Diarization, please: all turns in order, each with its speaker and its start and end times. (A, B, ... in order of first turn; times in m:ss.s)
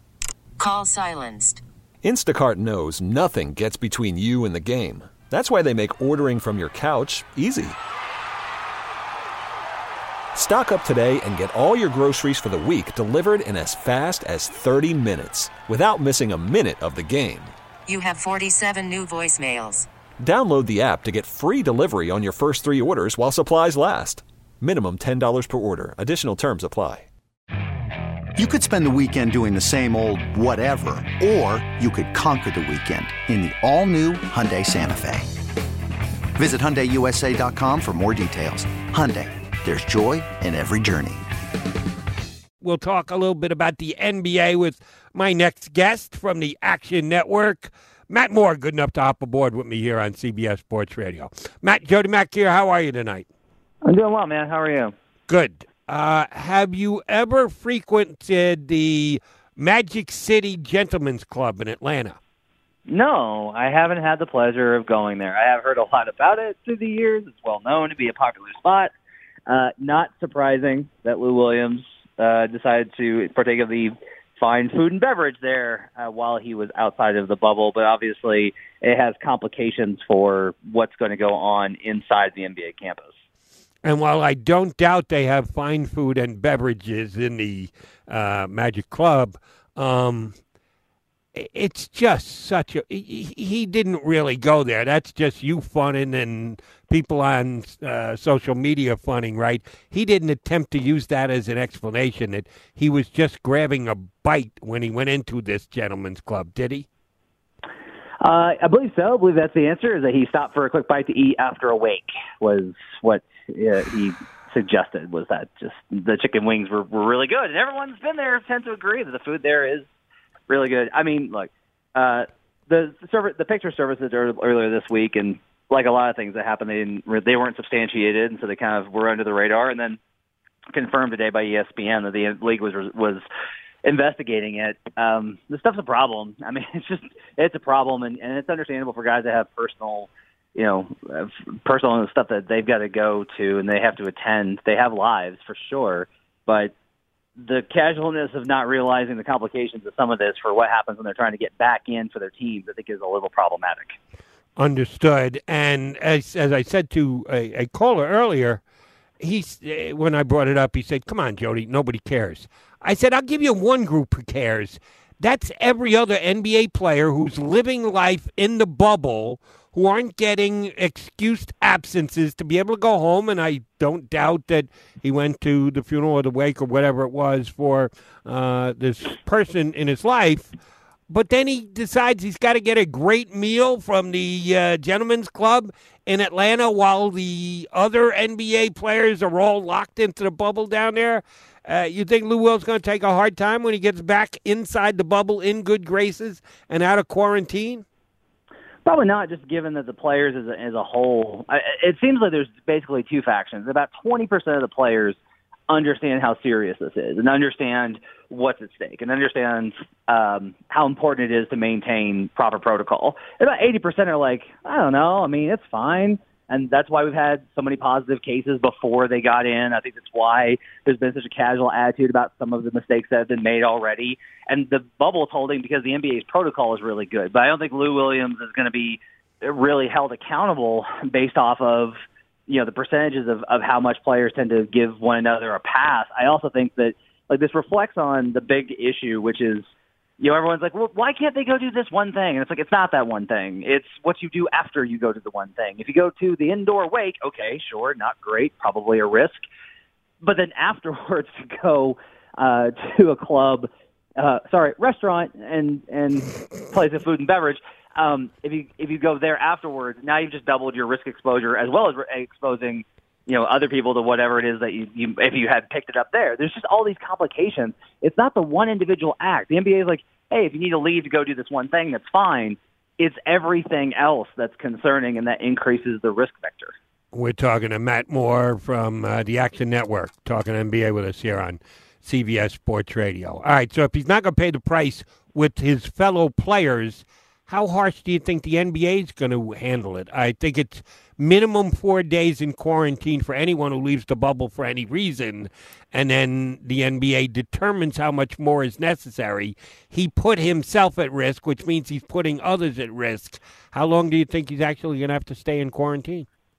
0:00.6-0:01.6 A
0:02.0-0:07.8 B
0:10.3-0:17.5 B
0:17.9-0:19.9 A
0:20.2-0:27.0 B
0:28.4-0:35.3 C
0:36.4-0:41.2 C
0:42.6-0:53.2 D
0:53.8-0:54.9 E
0:55.3-1:02.2 D
1:02.9-1:08.9 E
1:09.5-1:23.1 E
1:23.8-1:30.3 D
1:31.3-1:46.8 D
1:48.2-1:59.9 E
2:00.5-2:10.0 E
2:10.7-2:13.2 E
2:13.8-2:26.7 E
2:27.4-2:34.0 E
2:34.6-2:38.6 D
2:39.2-3:00.5 D
3:01.1-3:17.8 D
3:18.8-3:25.2 E
3:25.7-3:51.9 E
3:52.5-3:59.6 E
4:00.2-4:09.4 E
4:10.2-4:36.7 E
4:37.1-5:06.2 D